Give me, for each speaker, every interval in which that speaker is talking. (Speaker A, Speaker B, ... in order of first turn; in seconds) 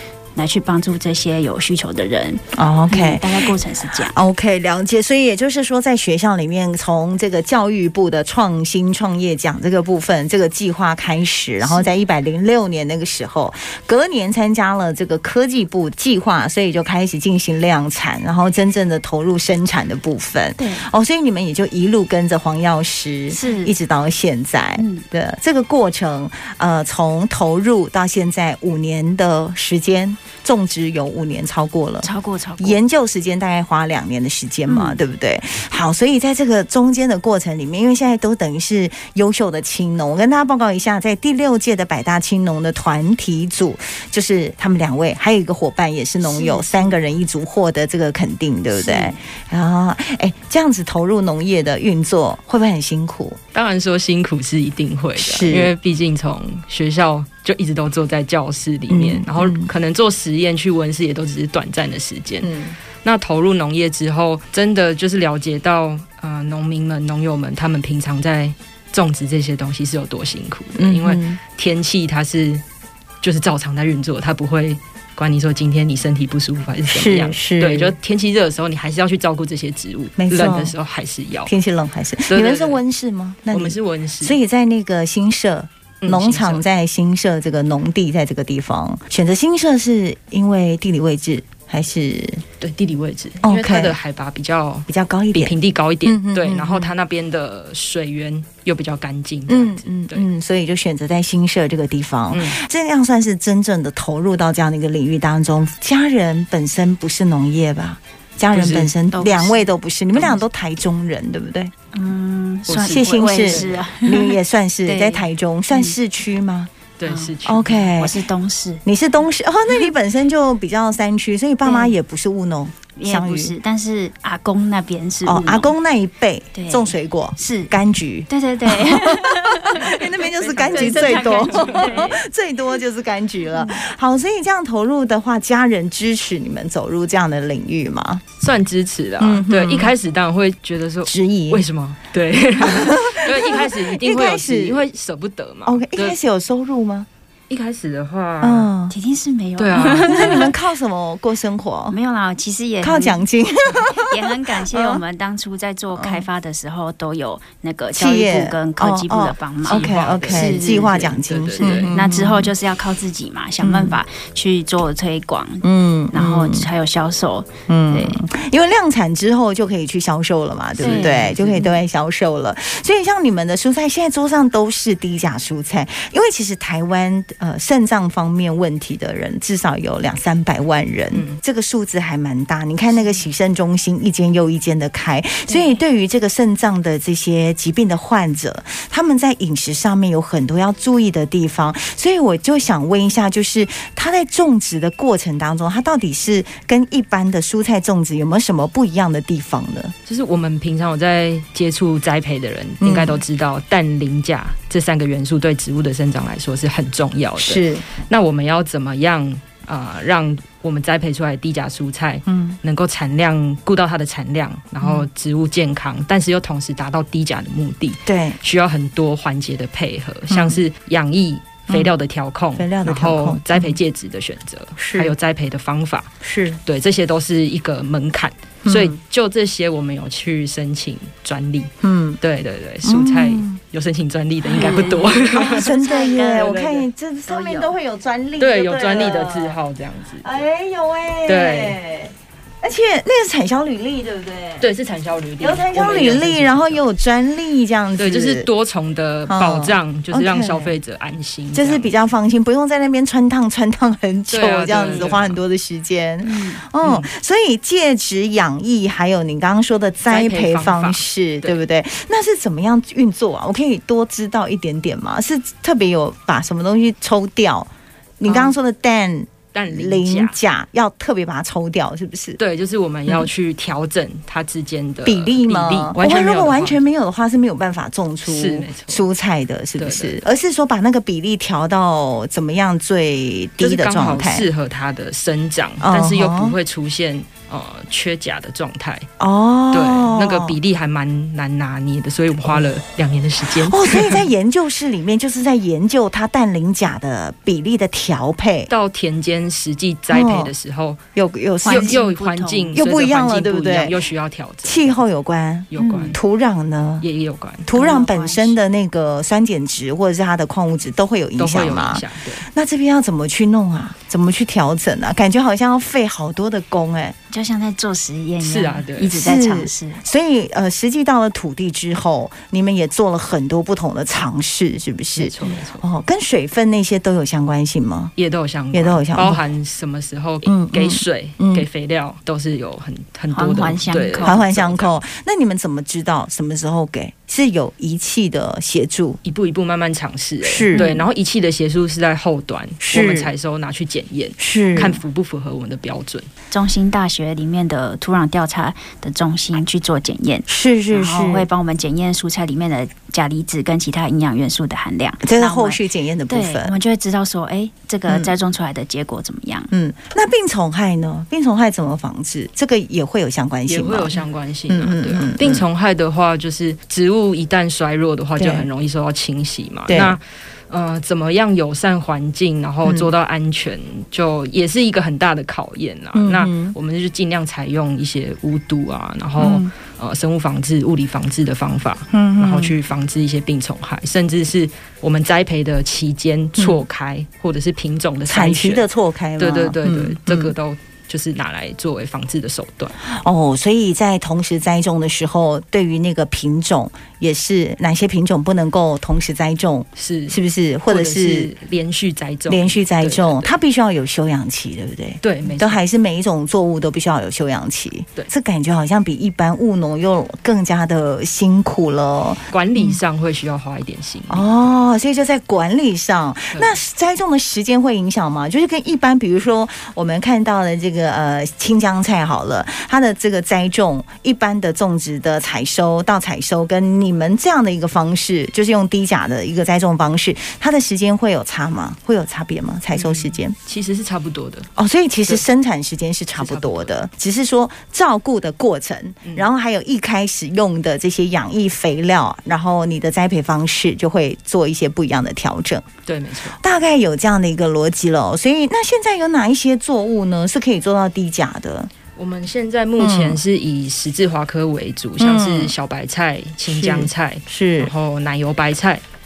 Speaker A: 0.4-4.2, 11.6-11.9, 20.6-20.9, 23.3-23.7, 24.8-25.1, 32.0-32.8, 34.7-35.0, 46.2-47.0, 48.8-49.2, 109.1-109.7, 111.9-116.0, 117.1-118.8, 121.6-122.0, 123.0-125.7, 126.5-127.7, 128.3-130.0, 130.7-132.2, 133.5-133.8, 148.9-150.5, 151.9-153.2, 153.7-161.0, 161.6-168.2, 170.8-171.7, 185.5-185.8, 234.5-236.6, 237.3-237.8, 254.7-255.1, 256.2-256.6, 301.6-302.8, 305.8-306.2, 307.7-308.6, 317.3-320.0, 333.3-334.4, 340.7-341.1, 346.5-359.7
Speaker B: 2.5-32.1, 32.6-53.4, 55.2-55.7, 58.9-59.7, 62.4-62.8, 70.8-71.4, 76.9-78.0, 80.2-80.8, 81.5-92.4, 93.4-94.0, 94.9-96.9, 99.5-111.7, 112.7-116.7, 117.5-118.2, 118.8-123.5, 125.3-138.2, 139.2-139.9, 141.1-141.6, 142.6-144.9, 145.7-147.1, 148.4-148.9, 150.0-152.0, 152.8-155.0, 155.9-156.2, 157.9-162.5, 163.6-164.0, 165.6-166.7, 167.7-199.9, 202.8-203.2, 207.4-207.9, 212.3-212.6, 214.8-215.1, 218.1-218.4, 220.3-220.6, 222.6-223.8, 224.8-225.1, 226.2-226.6, 228.7-229.0, 231.8-232.2, 232.8-233.6, 234.5-239.6, 240.2-244.7, 245.4-248.5, 249.3-250.8, 251.5-267.7, 268.2-272.4, 275.1-284.5, 285.8-286.6, 289.2-290.6, 293.4-298.7, 300.1-300.5, 301.1-302.0, 302.7-303.9, 304.6-307.1, 307.7-317.1, 319.1-328.1, 328.7-329.4, 330.4-331.7, 334.2-339.2, 340.4-340.9, 342.8-343.3, 344.4-345.0, 350.5-351.5, 355.2-356.7, 359.7-364.2, 364.7-365.6, 368.4-368.7, 369.9-370.2, 376.1-376.8, 379.4-379.7, 382.1-382.8, 388.3-390.5, 393.0-401.5, 402.5-413.0, 414.3-433.6, 434.8-445.9, 446.6-451.9, 453.0-453.4, 455.2-455.7, 456.7-457.9
Speaker C: 53.5-62.5, 63.0-72.6, 73.2-81.5, 82.3-82.8, 83.5-84.4, 86.0-86.7, 92.6-100.3, 102.3-102.6, 108.5-108.9, 112.8-113.9, 117.0-117.9, 129.8-132.2, 138.4-146.2, 147.5-148.7, 149.6-150.5, 159.7-161.9, 170.8-171.7, 181.1-181.4, 200.1-226.1, 226.6-236.9, 238.4-240.3, 241.3-241.8, 244.6-246.8, 248.0-251.9, 254.3-255.4, 256.8-257.1, 260.1-261.6, 269.5-270.4, 272.4-276.8, 278.3-279.0, 279.8-280.2, 283.6-289.1, 289.7-294.3, 298.7-301.0, 301.7-305.0, 305.7-306.2, 307.0-307.7, 311.4-312.5, 318.4-319.2, 325.2-325.9, 328.2-335.0, 339.2-346.3, 363.7-388.9, 389.4-392.9, 400.0-403.6, 405.2-405.8, 412.5-414.5, 432.9-434.7, 436.4-437.0, 446.1-446.6, 452.2-459.0